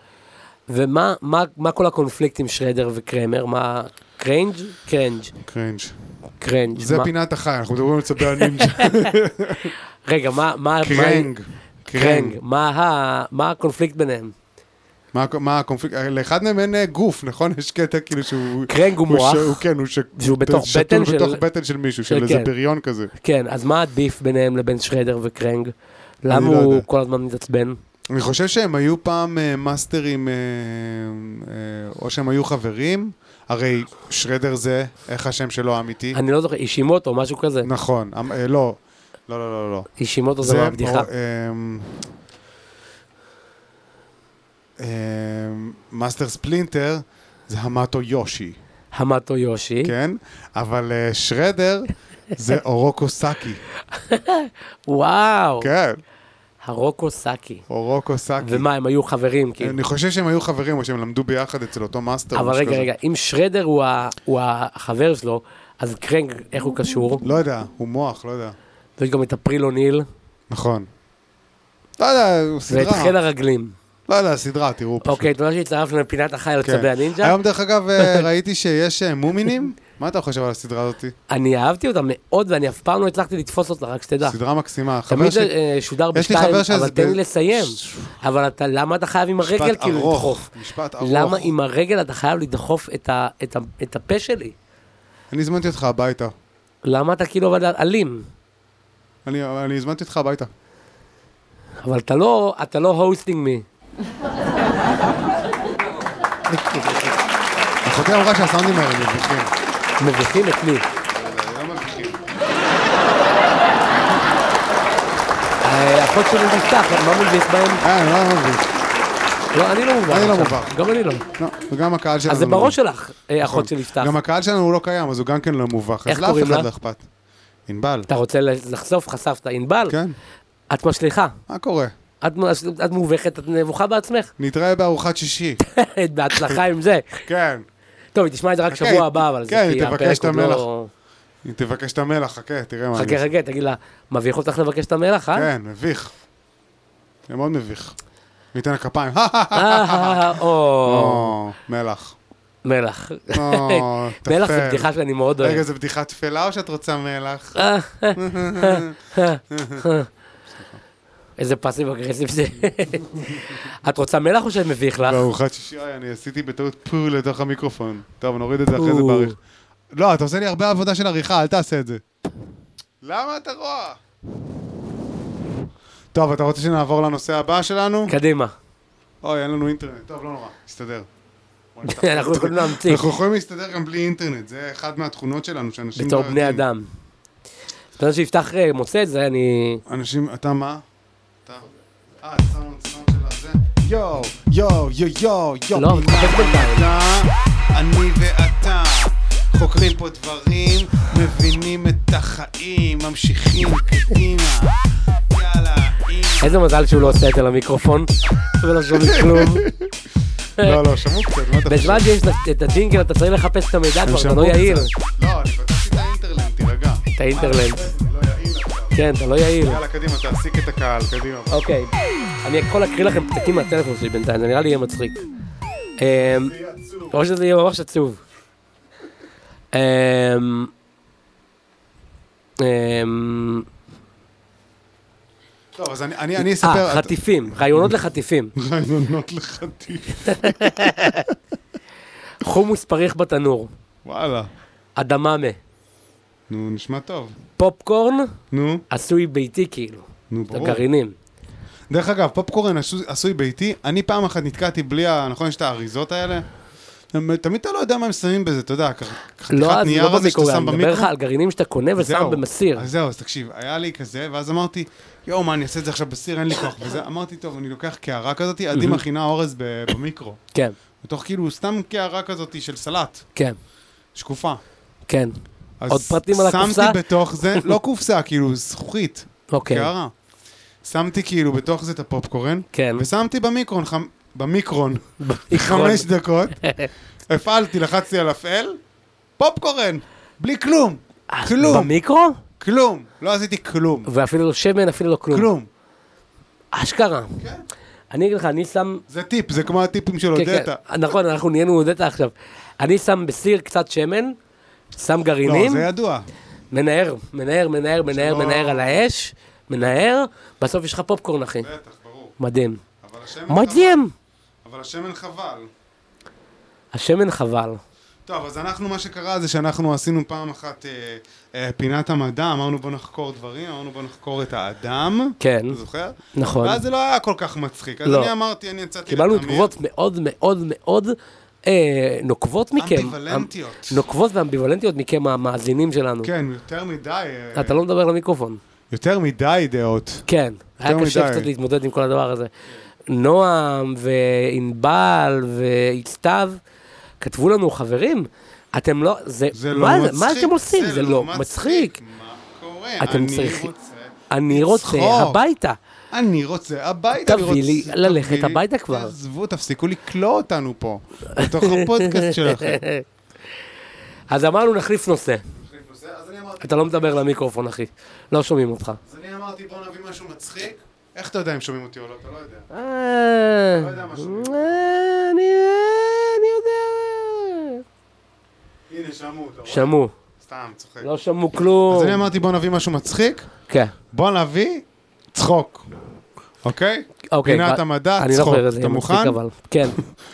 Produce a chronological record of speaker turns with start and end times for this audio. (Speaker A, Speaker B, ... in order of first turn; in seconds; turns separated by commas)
Speaker A: 0.7-5.3, Speaker B: 5.4-5.9, Speaker A: 6.4-7.1, Speaker B: 6.7-9.8, Speaker A: 8.4-9.1, Speaker A: 10.1-11.3, Speaker B: 10.8-12.4, Speaker A: 11.9-14.3, Speaker B: 15.1-23.1, Speaker A: 18.7-19.6, Speaker A: 20.2-21.4, Speaker A: 22.1-22.5, Speaker A: 23.2-25.7, Speaker A: 26.2-27.8, Speaker B: 26.3-26.9, Speaker B: 28.1-36.2, Speaker A: 36.1-37.7, Speaker B: 37.6-39.9, Speaker A: 40.0-41.1, Speaker B: 40.4-42.0, Speaker B: 44.8-48.6, Speaker A: 48.9-49.9, Speaker B: 49.8-53.6, Speaker A: 53.9-55.7, Speaker B: 55.6-56.0, Speaker A: 56.6-57.6, Speaker B: 57.7-58.6, Speaker A: 58.4-59.8, Speaker B: 59.6-62.9, Speaker A: 62.3-67.2, Speaker B: 67.2-68.6, Speaker A: 69.0-70.1, Speaker B: 70.5-70.9, Speaker B: 72.0-73.2, Speaker A: 72.7-73.8, Speaker B: 74.1-75.3, Speaker A: 75.0-77.4, Speaker B: 76.6-81.2, Speaker A: 78.0-78.3, Speaker A: 81.3-84.4, Speaker B: 84.2-85.5, Speaker A: 85.1-90.5, Speaker B: 86.1-88.1, Speaker B: 89.4-91.5, Speaker A: 91.0-94.5, Speaker B: 95.3-96.3, Speaker A: 96.8-98.3, Speaker B: 99.3-100.5, Speaker A: 101.8-103.7, Speaker A: 106.5-107.2, Speaker B: 107.8-109.5, Speaker A: 110.0-110.8, Speaker B: 111.1-112.2, Speaker A: 115.6-117.8, Speaker B: 117.8-118.7, Speaker A: 119.5-121.2, Speaker B: 120.1-120.8, Speaker B: 121.4-122.8, Speaker A: 122.3-124.2, Speaker B: 123.4-127.0, Speaker A: 126.1-126.7, Speaker B: 127.7-128.1, Speaker A: 128.1-129.9, Speaker B: 129.9-130.2, Speaker A: 130.7-131.3, Speaker B: 131.5-131.9, Speaker A: 132.2-134.3, Speaker B: 134.4-135.6, Speaker A: 135.6-137.2, Speaker B: 137.2-137.6, Speaker A: 138.1-140.9, Speaker B: 138.7-140.7, Speaker B: 141.4-143.2, Speaker A: 142.9-145.5, Speaker B: 145.3-146.1, Speaker B: 147.3-147.9, Speaker B: 148.5-152.2, Speaker A: 149.5-151.4, Speaker A: 152.6-155.6, Speaker B: 153.3-157.6, Speaker A: 157.6-160.1, Speaker B: 158.1-159.0, Speaker B: 159.5-159.9, Speaker A: 161.4-165.3, Speaker B: 165.0-169.4, Speaker A: 168.7-169.3, Speaker B: 169.9-172.0, Speaker B: 173.0-174.0, Speaker B: 176.1-178.2, Speaker A: 178.1-178.5, Speaker B: 179.2-181.1, Speaker B: 181.8-186.6, Speaker A: 181.9-183.1, Speaker A: 186.0-186.9, Speaker A: 188.0-189.8, Speaker B: 189.9-190.8, Speaker B: 192.2-204.8, Speaker A: 195.7-196.9, Speaker B: 205.3-207.2, Speaker A: 206.4-209.7, Speaker B: 208.8-209.9, Speaker B: 210.6-212.1, Speaker A: 211.7-214.9, Speaker B: 214.1-219.0, Speaker A: 217.2-217.9, Speaker A: 218.9-219.8, Speaker B: 219.6-221.7, Speaker A: 221.5-221.9, Speaker A: 222.4-225.2, Speaker A: 226.0-226.5, Speaker B: 226.2-227.2, Speaker A: 227.1-228.2, Speaker A: 229.7-230.7, Speaker A: 232.6-233.7, Speaker B: 235.8-237.9, Speaker A: 236.4-238.5, Speaker B: 238.6-241.3, Speaker A: 240.3-241.3, Speaker A: 242.4-243.7, Speaker B: 244.1-244.5, Speaker A: 245.0-245.6, Speaker B: 246.5-247.4, Speaker A: 247.6-248.3, Speaker B: 248.5-248.8, Speaker A: 248.9-251.2, Speaker B: 250.3-250.8, Speaker B: 251.9-256.4, Speaker B: 257.1-261.1, Speaker A: 259.5-262.9, Speaker B: 262.0-270.4, Speaker A: 268.8-269.0, Speaker B: 271.0-273.3, Speaker B: 274.1-274.6, Speaker A: 275.1-275.3, Speaker B: 275.8-280.1, Speaker A: 275.9-277.0, Speaker A: 279.5-279.9, Speaker B: 280.8-286.7, Speaker A: 282.7-283.0, Speaker A: 285.2-286.1, Speaker A: 286.6-286.9, Speaker B: 287.3-288.8, Speaker B: 289.4-291.9, Speaker A: 291.3-292.4, Speaker B: 292.6-294.1, Speaker A: 294.1-295.5, Speaker B: 295.3-295.7, Speaker A: 296.7-297.4, Speaker A: 298.1-299.0, Speaker B: 299.1-300.8, Speaker A: 300.4-304.4, Speaker A: 304.9-305.9, Speaker B: 305.4-306.3, Speaker A: 306.7-311.7, Speaker B: 308.1-309.0, Speaker B: 311.6-312.4, Speaker A: 312.4-312.8, Speaker B: 313.0-314.0, Speaker A: 313.5-314.1, Speaker B: 314.6-315.7, Speaker A: 316.9-317.8, Speaker B: 318.3-329.7, Speaker A: 325.4-325.8, Speaker A: 326.3-326.8, Speaker A: 328.1-328.3, Speaker A: 329.1-336.3, Speaker B: 332.8-334.0, Speaker B: 336.2-337.8, Speaker A: 337.6-338.6, Speaker B: 338.9-340.3, Speaker A: 340.3-342.5, Speaker B: 340.8-341.5, Speaker A: 343.1-346.6, Speaker A: 347.2-352.0, Speaker B: 349.5-355.4, Speaker A: 353.0-353.7, Speaker A: 354.3-355.8, Speaker B: 356.1-362.8, Speaker A: 357.2-359.1, Speaker A: 361.4-363.0, Speaker A: 364.3-365.4, Speaker B: 365.6-367.2, Speaker A: 366.6-369.0, Speaker B: 369.1-372.7, Speaker A: 372.7-377.8, Speaker B: 373.7-374.9, Speaker B: 378.9-381.1, Speaker A: 379.7-380.1, Speaker A: 381.0-382.2, Speaker B: 381.9-383.5, Speaker A: 383.7-383.9, Speaker B: 384.1-385.9, Speaker B: 386.6-389.4, Speaker A: 387.3-390.0